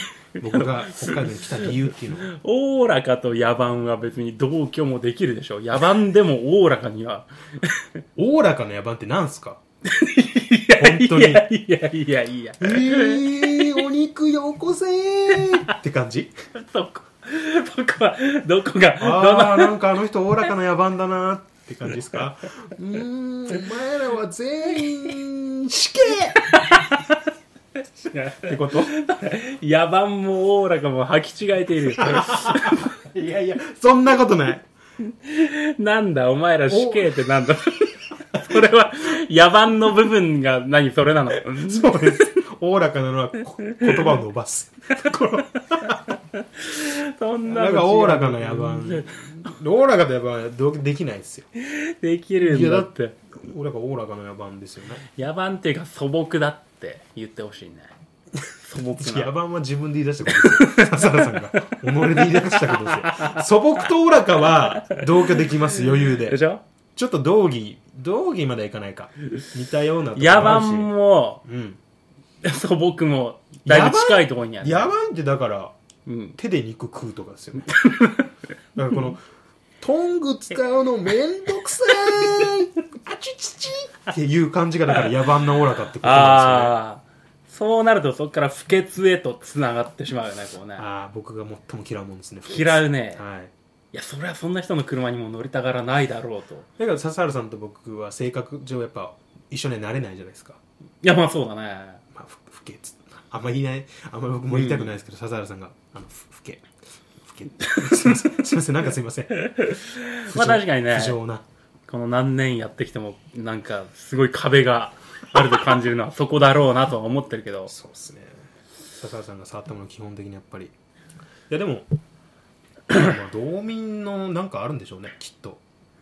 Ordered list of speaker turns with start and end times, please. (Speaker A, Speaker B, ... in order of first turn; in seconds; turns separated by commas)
Speaker A: 0.4-2.3, Speaker B: 0.4-7.9, Speaker A: 8.2-9.6, Speaker B: 9.8-13.9, Speaker A: 10.8-11.5, Speaker A: 12.6-16.3, Speaker B: 15.3-15.6, Speaker B: 16.5-19.8, Speaker A: 19.0-26.5, Speaker B: 26.4-27.2, Speaker B: 28.1-32.9, Speaker A: 28.4-28.9, Speaker A: 32.0-34.6, Speaker B: 35.0-42.3, Speaker A: 36.7-37.2, Speaker A: 41.4-46.1, Speaker B: 43.7-44.1, Speaker B: 45.7-49.2, Speaker A: 47.5-51.5, Speaker B: 51.5-53.1, Speaker A: 52.4-55.0, Speaker B: 55.1-57.9, Speaker B: 58.6-59.3, Speaker A: 59.0-66.4, Speaker B: 60.3-63.5, Speaker B: 64.9-65.5, Speaker B: 66.2-66.6, Speaker A: 66.9-71.8, Speaker B: 70.2-71.4, Speaker B: 72.4-74.9, Speaker A: 73.6-75.7, Speaker B: 76.0-76.4, Speaker A: 76.4-77.8, Speaker B: 77.7-78.3, Speaker A: 78.7-79.2, Speaker A: 79.8-86.8, Speaker B: 86.0-90.8, Speaker A: 90.8-93.5, Speaker B: 92.5-93.2, Speaker B: 93.9-96.7, Speaker A: 96.8-100.6, Speaker B: 101.0-102.0, Speaker A: 102.1-106.7, Speaker B: 104.5-104.9, Speaker A: 107.2-109.6, Speaker B: 107.8-108.2, Speaker B: 109.4-111.2, Speaker A: 110.2-111.4, Speaker B: 111.9-117.7, Speaker A: 117.7-118.4, Speaker A: 119.0-120.7, Speaker A: 121.5-121.9, Speaker A: 122.9-125.6